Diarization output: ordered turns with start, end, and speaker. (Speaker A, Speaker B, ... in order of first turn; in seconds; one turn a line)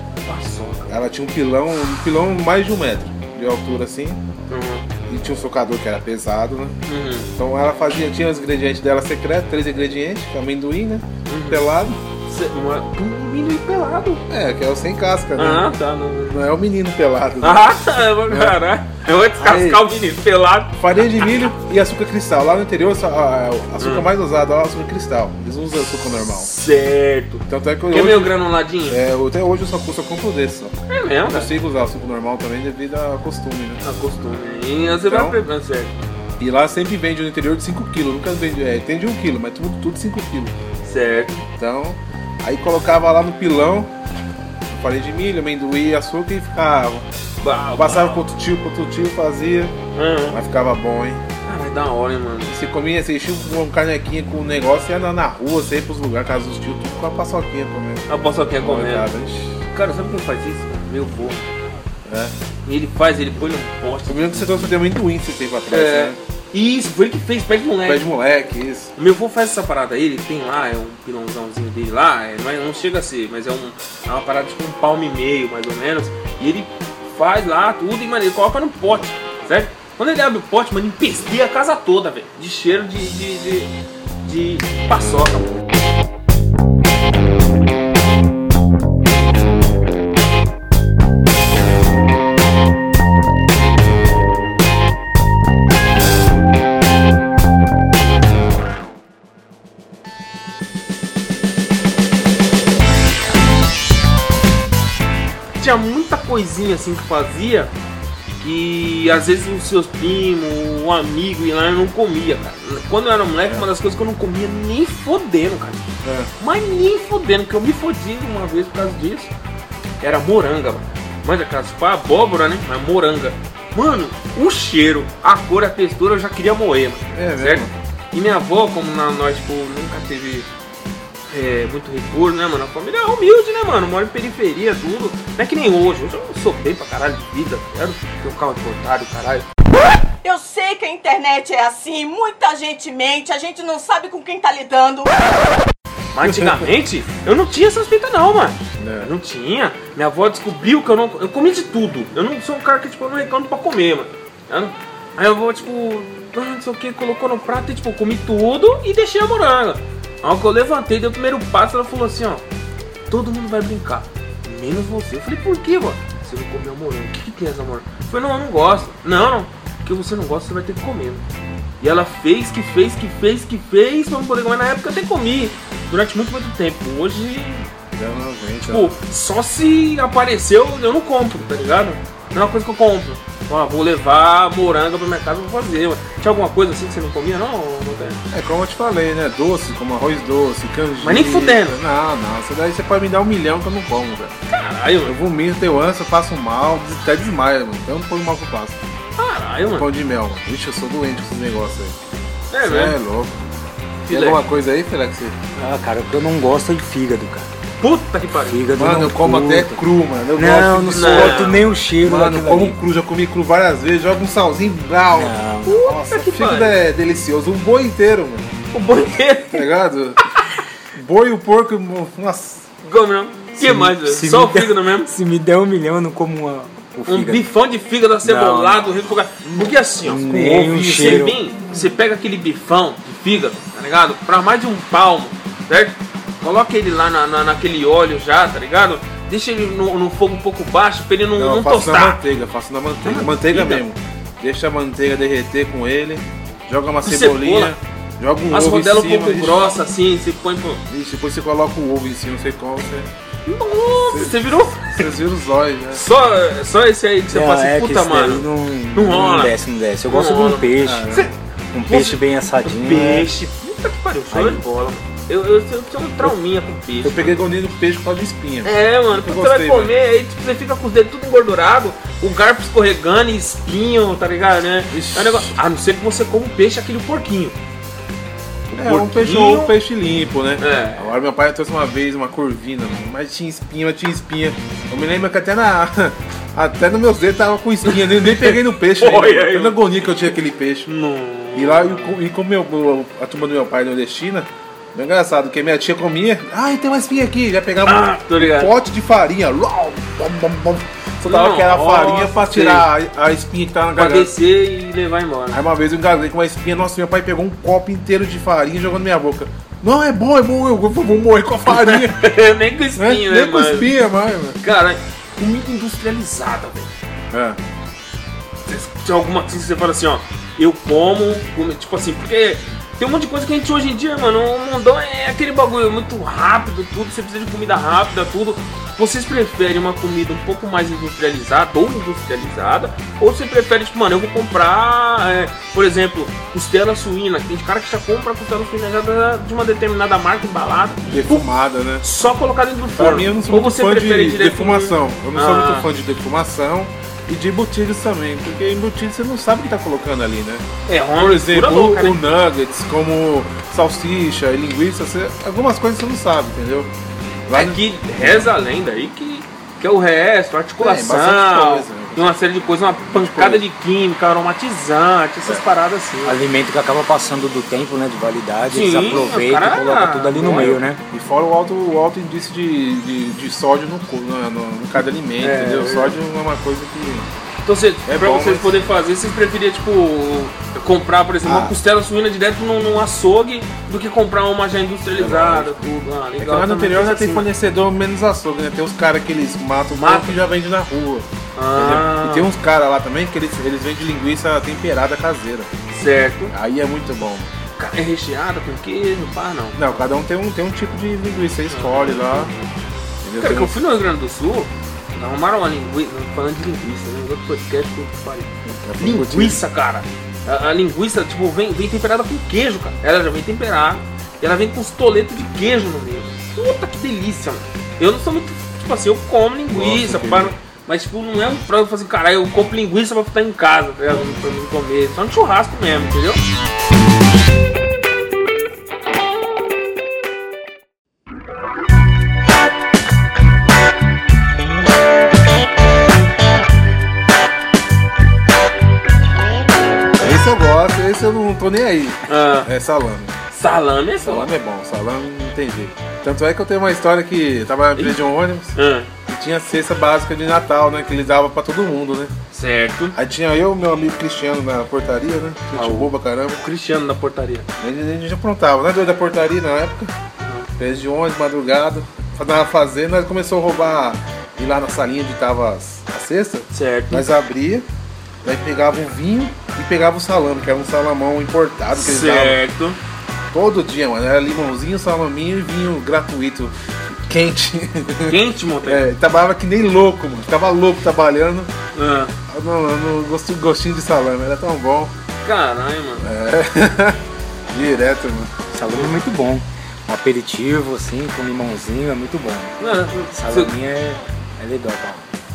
Speaker A: 0.2-0.9
Speaker B: 0.9-4.2
Speaker A: 4.5-4.9
Speaker B: 5.1-6.8
Speaker A: 6.9-7.3
Speaker B: 7.4-12.0
Speaker A: 11.3-11.7
Speaker A: 12.2-14.2
Speaker B: 14.3-15.7
Speaker A: 15.4-16.4
Speaker B: 16.3-18.6
Speaker A: 17.4-21.5
Speaker B: 19.4-19.8
Speaker B: 20.8-26.5
Speaker A: 23.8-24.1
Speaker A: 26.2-29.0
Speaker B: 27.5-33.8
Speaker A: 30.9-31.5
Speaker A: 33.8-36.0
Speaker B: 35.1-35.4
Speaker B: 36.4-40.5
Speaker A: 40.8-41.4
Speaker B: 41.5-43.9
Speaker B: 44.7-47.1
Speaker A: 47.4-48.2
Speaker B: 47.8-49.8
Speaker A: 50.0-50.4
Speaker B: 50.3-51.2
Speaker A: 51.5-52.5
Speaker B: 52.5-58.1
Speaker A: 58.1-59.1
Speaker B: 58.6-59.6
Speaker A: 59.7-61.5
Speaker B: 62.1-62.3
Speaker A: 62.7-64.8
Speaker B: 64.1-66.2
Speaker A: 65.7-68.0
Speaker B: 67.8-68.9
Speaker A: 69.0-85.6
Speaker A: 105.6-107.7
Speaker A: 108.4-115.9
Speaker B: 116.0-116.3
Speaker A: 116.4-119.3
Speaker A: 120.0-130.5
Speaker B: 127.1-127.7
Speaker A: 131.3-139.5
Speaker C: 140.2-145.2
Speaker A: 146.1-162.4
Speaker B: 146.2-146.7
Speaker B: 148.8-149.1
Speaker A: 163.1-171.2
Speaker A: 171.8-177.7
Speaker B: 177.9-178.9
Speaker A: 178.6-188.2
Speaker B: 188.3-194.3
Speaker A: 191.0-191.8
Speaker A: 194.5-195.2
Speaker B: 195.1-198.8
Speaker A: 199.2-199.9
Speaker B: 199.7-202.0
Speaker A: 202.5-203.0
Speaker B: 202.6-203.4
Speaker A: 204.0-204.4
Speaker B: 204.1-205.4
Speaker D: 205.6-207.5
Speaker A: 207.8-208.7
Speaker D: 208.4-209.8
Speaker B: 208.8-218.5
Speaker D: 210.4-212.8
Speaker A: 210.9-211.6
Speaker D: 215.1-215.8
Speaker A: 215.7-216.8
Speaker A: 218.7-219.7
Speaker B: 219.5-220.2
Speaker B: 220.9-222.7
Speaker A: 222.8-225.1
Speaker D: 223.6-227.4
Speaker A: 227.1-242.2
Speaker D: 228.2-229.1
Speaker D: 230.0-231.4
Speaker B: 241.3-249.7
Speaker A: 243.0-243.8
Speaker A: 247.0-247.8
Speaker A: 248.5-250.8
Speaker B: 250.9-253.1
Speaker A: 253.5-255.1
Speaker B: 254.1-256.0
Speaker A: 255.9-259.5
Speaker D: 257.3-261.2
Speaker A: 260.1-261.3
Speaker B: 260.8-261.3
Speaker D: 261.7-263.3
Speaker A: 261.9-267.4
Speaker D: 264.3-264.6
Speaker B: 267.0-269.9
Speaker A: 268.6-277.6
Speaker B: 274.9-275.6
Speaker A: 278.7-279.7
Speaker B: 278.8-290.9
Speaker A: 280.6-281.2
Speaker A: 287.9-290.3
Speaker A: 290.9-292.2
Speaker B: 291.5-304.3
Speaker A: 297.9-298.7
Speaker A: 301.2-302.9
Speaker A: 304.0-305.6
Speaker B: 305.5-312.2
Speaker A: 311.7-313.9
Speaker B: 313.0-314.6
Speaker A: 314.6-316.9
Speaker B: 317.3-317.6
Speaker A: 318.7-341.5
Speaker B: 341.1-342.1
Speaker A: 342.0-345.9
Speaker B: 342.9-350.6
Speaker A: 350.9-352.2
Speaker B: 351.2-356.9
Speaker B: 357.5-358.5
Speaker A: 357.5-366.4
Speaker B: 360.8-362.4
Speaker B: 363.0-363.6
Speaker D: 366.2-371.0
Speaker A: 368.7-370.8
Speaker B: 371.1-377.3
Speaker A: 375.4-376.2
Speaker A: 377.7-387.5
Speaker B: 378.1-378.8
Speaker B: 381.4-381.8
Speaker B: 385.2-385.8
Speaker B: 386.4-395.7
Speaker A: 390.0-390.4
Speaker A: 391.6-392.5
Speaker A: 395.9-396.5
Speaker B: 396.5-397.5
Speaker A: 397.8-400.0
Speaker B: 399.8-402.5
Speaker A: 401.7-402.7
Speaker B: 403.2-403.8
Speaker A: 403.4-426.4
Speaker B: 408.6-409.6
Speaker B: 419.7-420.6
Speaker B: 440.2-443.4
Speaker A: 442.3-442.7
Speaker A: 443.5-444.5
Speaker B: 444.2-448.8
Speaker A: 448.8-449.1
Speaker B: 449.3-452.3
Speaker A: 452.5-453.1
Speaker B: 453.1-456.6
Speaker A: 455.7-457.7
Speaker B: 457.8-460.1
Speaker A: 460.4-460.7
Speaker B: 460.8-467.9
Speaker A: 466.7-467.3
Speaker B: 468.4-472.6
Speaker A: 471.9-473.0
Speaker B: 473.5-481.7
Speaker A: 478.3-479.0
Speaker A: 481.9-482.3
Speaker B: 482.5-485.1
Speaker A: 485.4-486.2
Speaker B: 486.2-487.2
Speaker B: 487.7-488.5
Speaker D: 488.7-492.8
Speaker A: 488.9-489.2
Speaker A: 492.8-493.7
Speaker D: 493.3-495.3